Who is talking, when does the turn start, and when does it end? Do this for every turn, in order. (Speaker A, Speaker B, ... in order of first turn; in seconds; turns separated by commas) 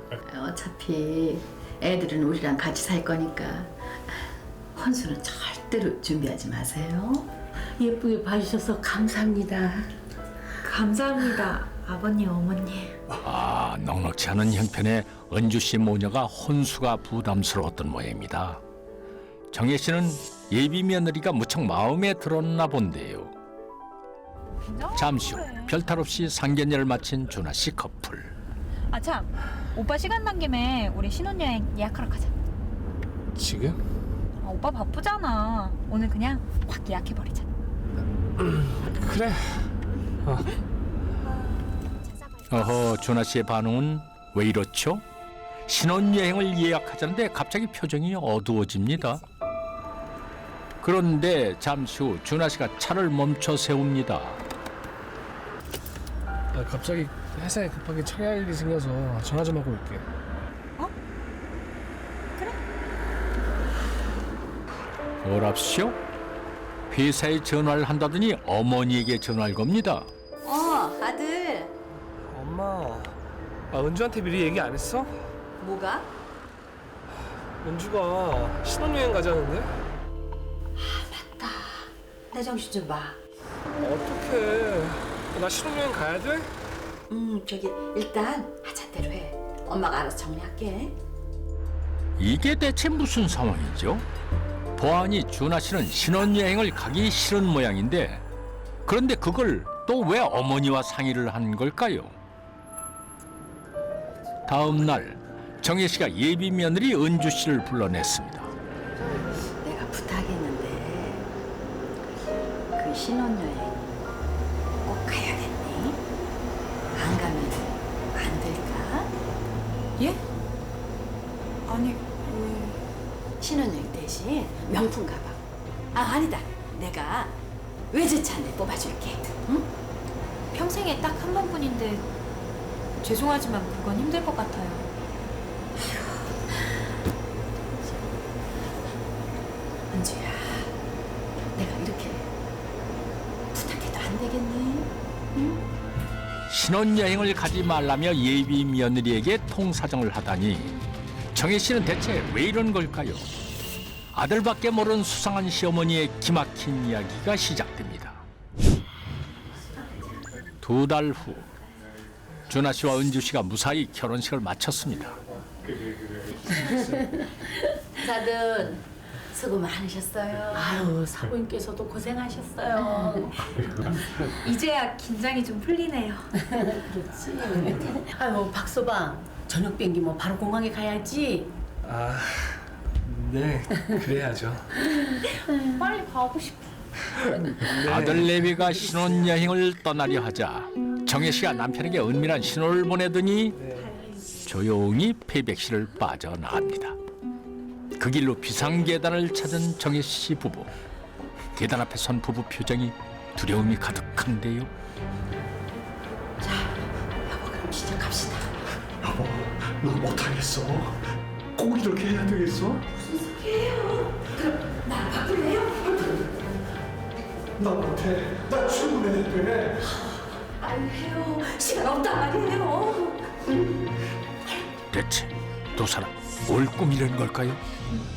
Speaker A: 0.2-3.7, Speaker A: 4.7-7.3, Speaker B: 7.8-9.5, Speaker A: 7.8-9.8, Speaker C: 10.6-13.0, Speaker D: 13.2-18.6, Speaker D: 19.5-23.3, Speaker C: 24.6-25.8, Speaker D: 24.9-28.3, Speaker C: 28.9-32.3, Speaker E: 33.3-33.8, Speaker C: 34.4-37.5, Speaker E: 38.4-39.7, Speaker D: 42.5-45.0, Speaker D: 45.7-49.2, Speaker D: 50.8-54.4, Speaker E: 56.5-60.0, Speaker C: 62.4-62.6, Speaker D: 65.2-66.0, Speaker D: 66.9-70.1, Speaker A: 70.4-71.7, Speaker E: 72.3-73.2, Speaker E: 73.7-75.3, Speaker A: 75.6-76.1, Speaker E: 77.6-79.7, Speaker A: 80.8-83.2, Speaker E: 83.8-86.5, Speaker A: 87.1-91.0, Speaker D: 92.2-94.0, Speaker D: 94.8-98.2, Speaker D: 98.8-102.1, Speaker D: 104.5-108.5, Speaker A: 109.6-111.3, Speaker A: 112.8-113.8, Speaker A: 114.8-116.0, Speaker A: 116.9-119.1, Speaker C: 121.7-122.8, Speaker A: 123.4-125.4, Speaker A: 125.9-127.3, Speaker A: 127.9-129.7, Speaker C: 130.5-132.1, Speaker C: 133.0-134.9, Speaker A: 135.8-136.5, Speaker A: 139.9-140.7, Speaker A: 141.5-142.2, Speaker A: 143.5-145.6, Speaker D: 146.5-150.8, Speaker D: 151.3-153.3, Speaker D: 154.1-158.2, Speaker D: 160.6-161.5, Speaker D: 162.5-165.2, Speaker A: 166.6-167.0, Speaker A: 167.9-171.2, Speaker B: 170.6-173.3, Speaker A: 172.7-173.4, Speaker C: 174.3-176.3, Speaker A: 176.8-181.5, Speaker B: 178.3-181.1, Speaker E: 181.8-184.7, Speaker C: 185.8-186.7, Speaker D: 187.6-193.6, Speaker E: 187.8-188.3, Speaker E: 193.6-193.9, Speaker D: 194.4-197.0, Speaker D: 198.0-200.7, Speaker D: 201.5-204.7, Speaker A: 206.4-206.7, Speaker A: 207.3-208.5, Speaker F: 209.0-211.0, Speaker F: 211.6-212.8, Speaker A: 213.2-216.1, Speaker F: 217.6-219.8, Speaker A: 220.7-223.2, Speaker D: 224.9-227.6